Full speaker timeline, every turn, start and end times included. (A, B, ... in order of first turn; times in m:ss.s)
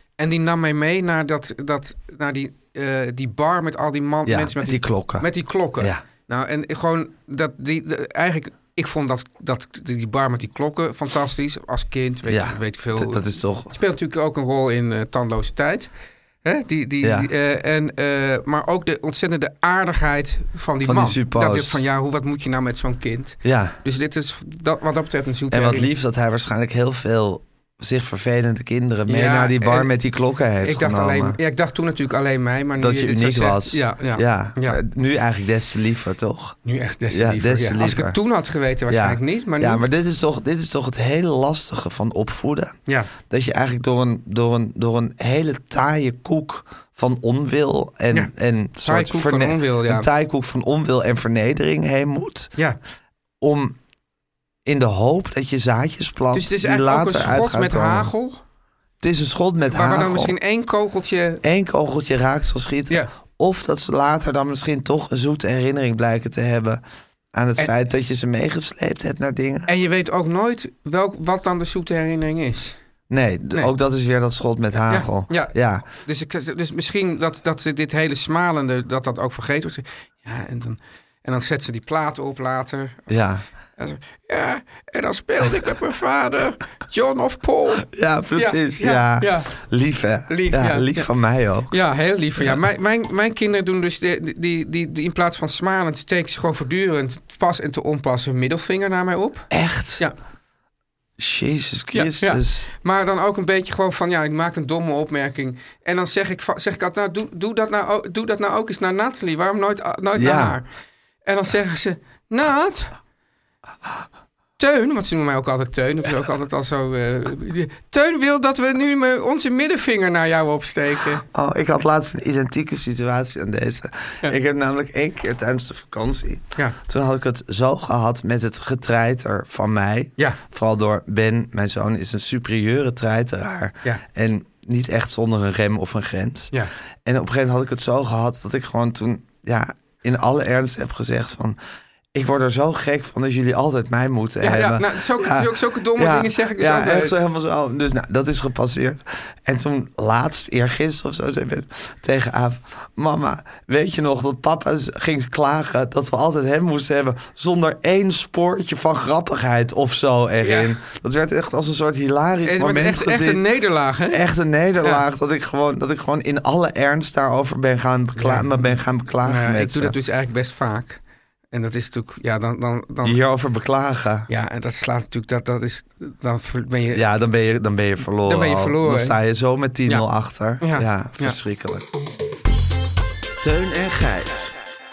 0:00.2-0:15.9 A
0:04.2-0:06.0 B
0:12.2-0:13.7 B
0:16.4-0:25.9 A
0:17.0-0:17.3 B
0:20.8-0:21.8 B
0:23.4-0:23.8 B
0:25.5-0:31.4 B
0:29.1-0:29.9 A
0:30.6-0:34.8 A
0:32.8-0:36.6 B
0:36.6-0:39.8 A
0:37.1-0:38.2 B
0:38.9-0:52.5 B
0:42.9-0:43.1 A
0:48.8-0:50.1 A
0:53.4-0:53.8 B
0:54.6-0:58.1 B
0:56.3-0:58.4 A
0:59.0-1:00.3 B
0:59.7-1:01.4 A
1:01.4-1:06.8 B
1:07.3-1:09.7 B
1:09.7-1:12.8 A
1:13.1-1:15.8 B
1:14.9-1:23.1 A
1:23.1-1:23.4 B
1:23.8-1:29.5 A
1:27.8-1:31.7 B
1:30.3-1:31.1 A
1:31.7-1:40.2 A
1:39.5-1:40.0 B
1:41.2-1:42.7 B
1:41.9-1:50.7 A
1:50.2-1:50.6 B
1:51.2-1:52.9 A
1:54.6-2:01.2 A
2:01.3-2:16.5 B
2:17.0-2:21.6 B
2:22.1-2:43.4 B
2:24.4-2:27.2 A
2:40.4-2:40.7 A
2:42.4-2:44.2 A
2:44.1-2:49.9 B
2:48.2-2:53.2 A
2:53.0-2:54.3 B
2:54.3-2:57.0 A
2:56.9-3:01.8 B
2:58.2-2:59.2 A
3:00.6-3:01.4 A
3:03.4-3:04.5 B